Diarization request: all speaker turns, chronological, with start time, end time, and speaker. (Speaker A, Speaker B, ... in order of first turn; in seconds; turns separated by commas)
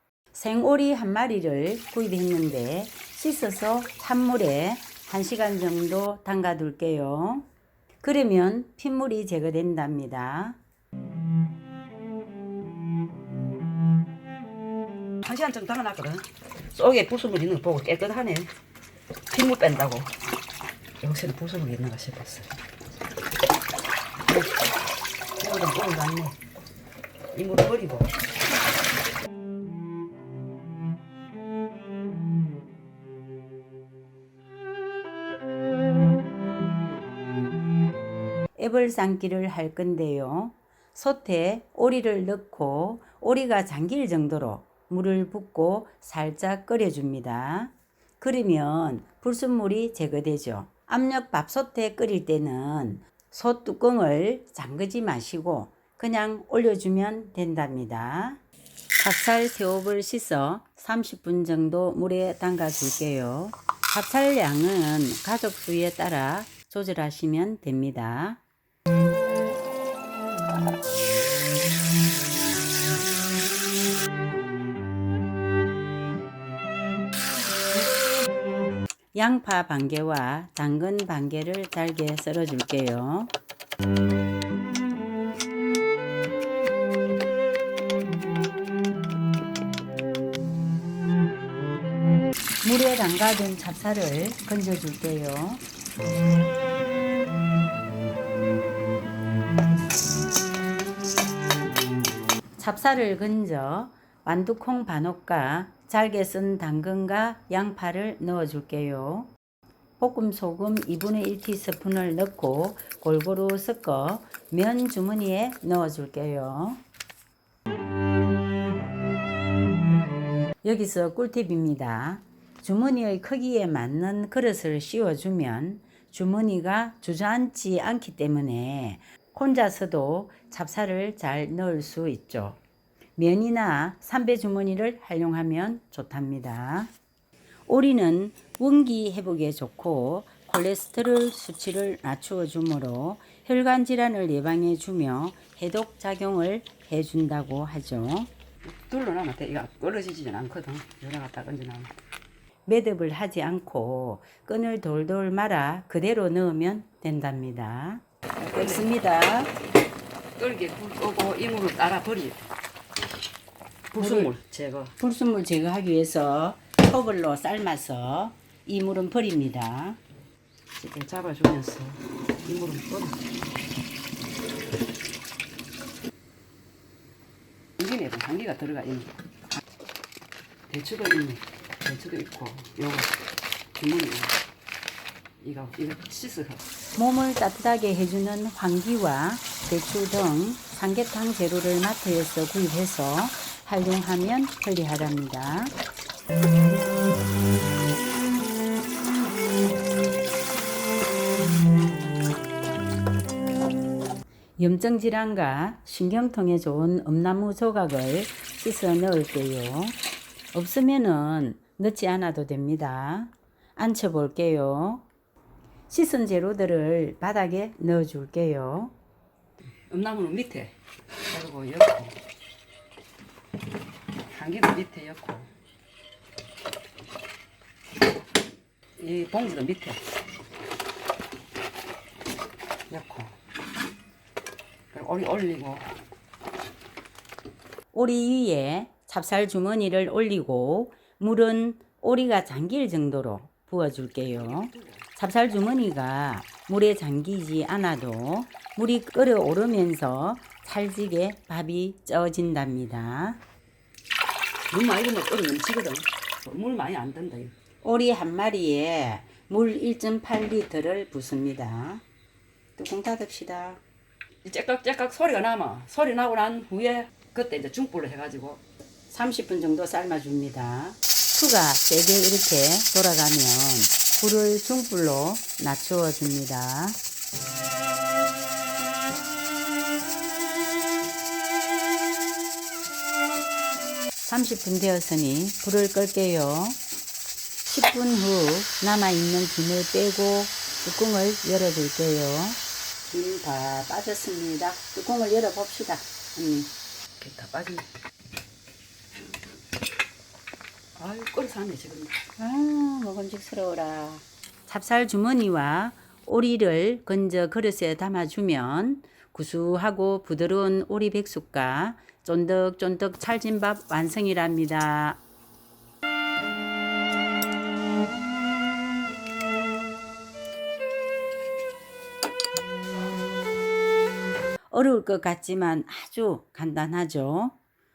Speaker A: 0.3-7.5, Speaker A: 8.0-10.6, Speaker B: 15.2-18.5, Speaker B: 19.3-20.1, Speaker B: 21.0-22.5, Speaker B: 24.3-24.6, Speaker B: 25.4-26.4, Speaker B: 27.3-28.2, Speaker A: 38.6-58.4, Speaker A: 59.0-68.4, Speaker A: 79.1-83.3, Speaker A: 92.6-95.6, Speaker A: 102.6-109.3, Speaker A: 110.0-116.8, Speaker A: 120.6-132.6, Speaker A: 133.2-136.9, Speaker A: 137.7-148.3, Speaker B: 148.6-151.9, Speaker A: 152.7-159.5, Speaker B: 158.5-158.8, Speaker B: 160.4-162.4, Speaker B: 163.9-164.9, Speaker A: 164.0-164.3, Speaker A: 165.0-170.0, Speaker B: 170.7-173.2, Speaker B: 177.8-179.2, Speaker B: 180.7-183.1, Speaker B: 183.8-184.4, Speaker B: 185.4-186.7, Speaker A: 186.9-195.7, Speaker A: 204.6-210.0, Speaker A: 210.5-215.1, Speaker A: 215.9-218.9, Speaker B: 219.9-220.7, Speaker B: 221.3-222.2, Speaker B: 224.3-225.5, Speaker B: 229.0-230.0, Speaker B: 232.9-233.3, Speaker B: 234.9-235.9, Speaker A: 237.9-253.4, Speaker B: 254.7-257.5, Speaker A: 257.8-262.0, Speaker A: 262.8-263.8, Speaker B: 264.4-268.6, Speaker A: 269.1-277.0, Speaker A: 284.2-286.8, Speaker A: 287.7-296.7, Speaker B: 297.2-297.9, Speaker B: 300.9-302.2, Speaker A: 302.4-315.2, Speaker A: 324.7-327.6